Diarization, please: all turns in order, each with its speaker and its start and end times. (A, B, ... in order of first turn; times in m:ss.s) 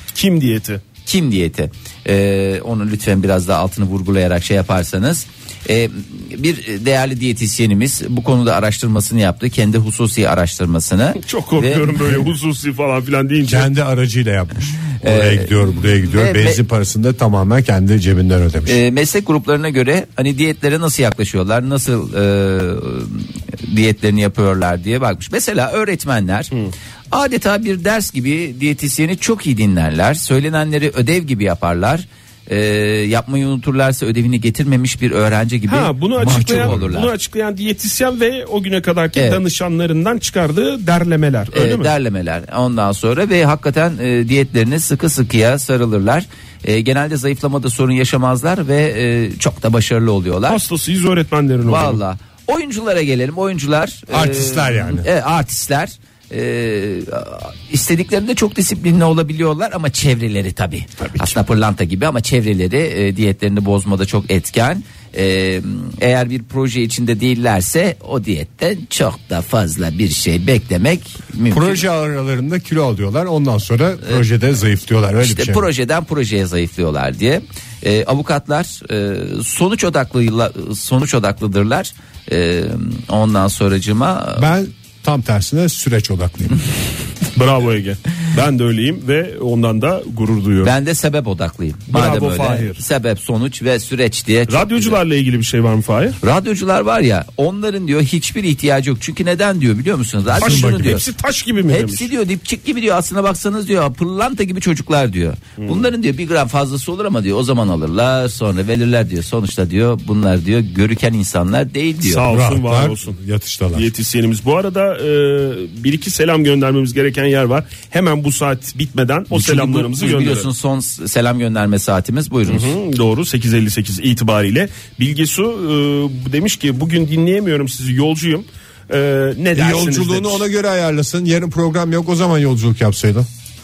0:00.2-0:00.8 A
0:01.1-0:12.2 B
0:11.2-0:13.7 A
0:13.5-0:18.8 C
0:15.0-0:16.6 B
0:18.7-0:26.5 B
0:27.1-0:37.1 B
0:35.7-0:41.9 A
0:36.2-0:36.9 C
0:41.5-0:50.6 B
0:50.5-0:52.0 A
0:51.6-1:11.8 B
0:54.1-0:55.1 C
1:11.5-1:15.6 C
1:15.2-1:24.5 B
1:24.4-1:26.6 C
1:27.3-1:30.7 A
1:30.6-1:35.0 B
1:31.9-1:32.8 A
1:34.5-1:36.2 A
1:36.2-1:41.0 B
1:40.4-1:41.0 C
1:40.4-1:42.1 A
1:41.7-1:52.3 B
1:45.6-1:45.9 A
1:52.0-1:53.2 A
1:52.3-1:53.9 C
1:53.7-2:00.5 A
1:59.3-2:02.7 B
2:02.5-2:10.4 A
2:09.5-2:13.3 C